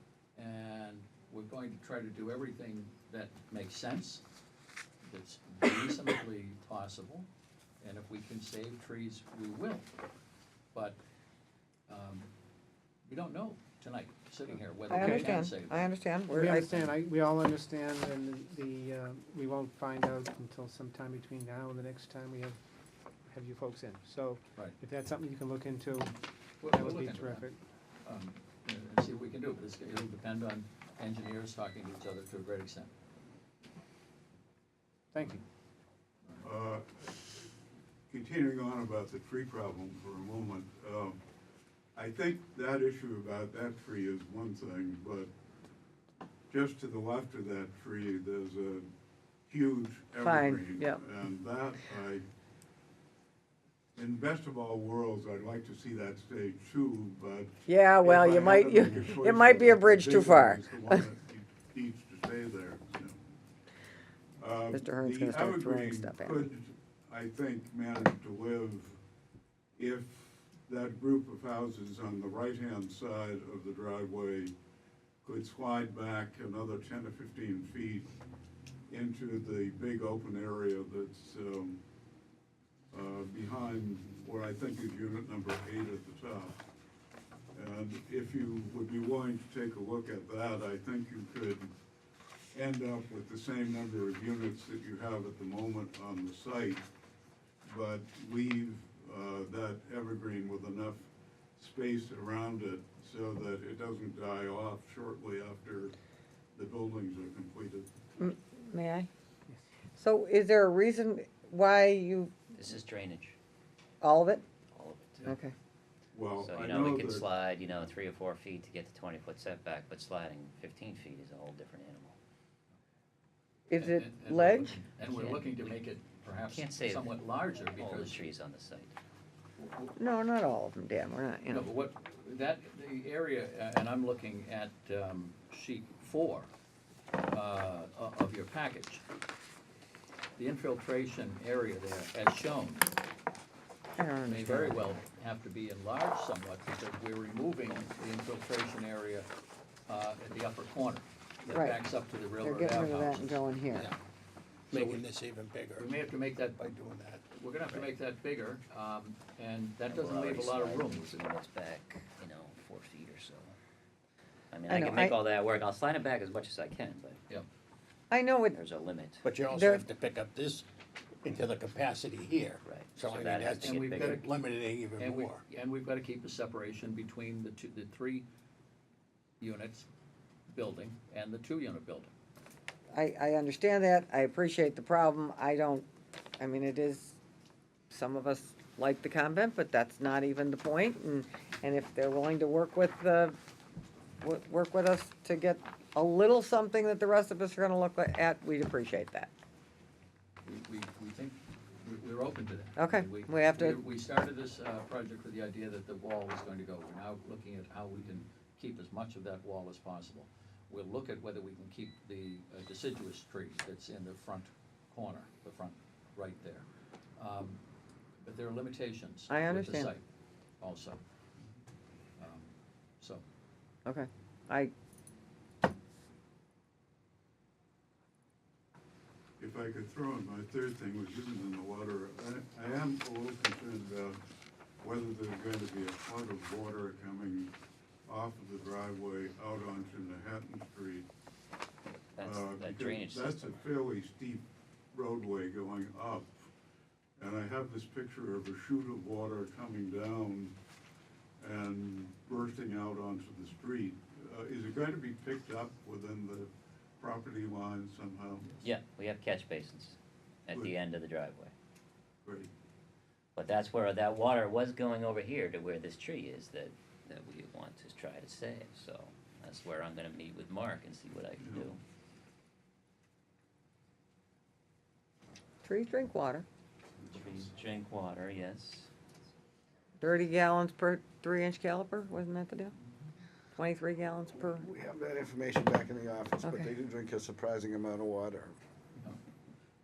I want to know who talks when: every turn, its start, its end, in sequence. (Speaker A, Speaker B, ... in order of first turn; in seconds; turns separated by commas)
Speaker A: 0.3-4.2, Speaker A: 5.1-7.3, Speaker A: 7.8-9.9, Speaker A: 11.9-12.3, Speaker A: 13.1-15.9, Speaker B: 14.9-16.8, Speaker C: 16.3-22.6, Speaker C: 23.3-27.6, Speaker A: 26.6-27.5, Speaker A: 28.0-32.9, Speaker C: 35.1-35.4, Speaker D: 36.4-37.4, Speaker D: 38.1-41.2, Speaker D: 41.9-45.3, Speaker D: 46.5-48.9, Speaker D: 49.5-52.2, Speaker B: 50.2-51.0, Speaker D: 54.0-63.2, Speaker B: 57.7-61.0, Speaker D: 64.4-69.0, Speaker B: 64.7-66.5, Speaker D: 69.8-74.5, Speaker D: 75.2-78.1, Speaker D: 78.9-81.8, Speaker D: 82.9-86.5, Speaker D: 87.5-91.7, Speaker D: 92.5-96.8, Speaker D: 97.6-105.9, Speaker D: 106.5-108.0, Speaker B: 108.2-109.1, Speaker B: 110.0-112.3, Speaker E: 112.5-113.3, Speaker B: 114.0-114.4, Speaker E: 114.7-115.3, Speaker B: 115.2-115.5, Speaker D: 116.1-117.2, Speaker E: 116.4-122.2, Speaker B: 123.7-124.7, Speaker A: 123.8-128.2, Speaker E: 125.0-125.6, Speaker E: 126.5-127.1, Speaker E: 127.7-128.9, Speaker B: 129.9-131.7, Speaker A: 131.5-136.5, Speaker A: 137.3-139.0, Speaker A: 140.4-142.9, Speaker B: 144.0-144.8, Speaker A: 144.2-149.3, Speaker A: 149.9-153.4, Speaker B: 151.5-151.8, Speaker B: 152.4-153.9, Speaker F: 154.7-156.0, Speaker A: 154.7-155.0, Speaker A: 155.7-156.6, Speaker F: 156.6-157.2, Speaker A: 157.3-161.2, Speaker E: 159.9-163.6, Speaker E: 164.5-167.4, Speaker B: 164.7-165.2, Speaker B: 168.1-168.6, Speaker E: 168.5-169.2, Speaker F: 169.2-170.7, Speaker B: 169.5-169.8, Speaker F: 171.2-175.4, Speaker E: 172.6-174.2, Speaker A: 173.6-174.3, Speaker A: 174.9-178.2, Speaker A: 179.4-179.9, Speaker A: 180.5-182.1, Speaker B: 182.9-185.9, Speaker B: 186.4-187.2, Speaker B: 187.9-193.4, Speaker B: 194.2-199.3, Speaker A: 200.4-216.7, Speaker B: 202.8-203.8, Speaker A: 217.2-217.6, Speaker A: 218.2-220.0, Speaker B: 219.3-219.9, Speaker A: 220.6-221.0, Speaker A: 222.2-223.2, Speaker B: 223.8-224.7, Speaker D: 229.4-234.2, Speaker D: 234.8-237.5, Speaker D: 238.1-241.1, Speaker E: 242.2-243.6, Speaker D: 242.2-246.5, Speaker D: 247.2-250.5, Speaker D: 251.4-258.6, Speaker E: 258.6-261.5, Speaker D: 262.2-262.5, Speaker E: 263.4-271.8, Speaker D: 271.4-271.7, Speaker B: 275.6-276.4, Speaker E: 277.0-278.9, Speaker B: 280.0-282.7, Speaker B: 283.5-284.7, Speaker D: 284.8-285.4, Speaker G: 284.9-288.3, Speaker D: 286.0-288.5, Speaker B: 286.4-286.7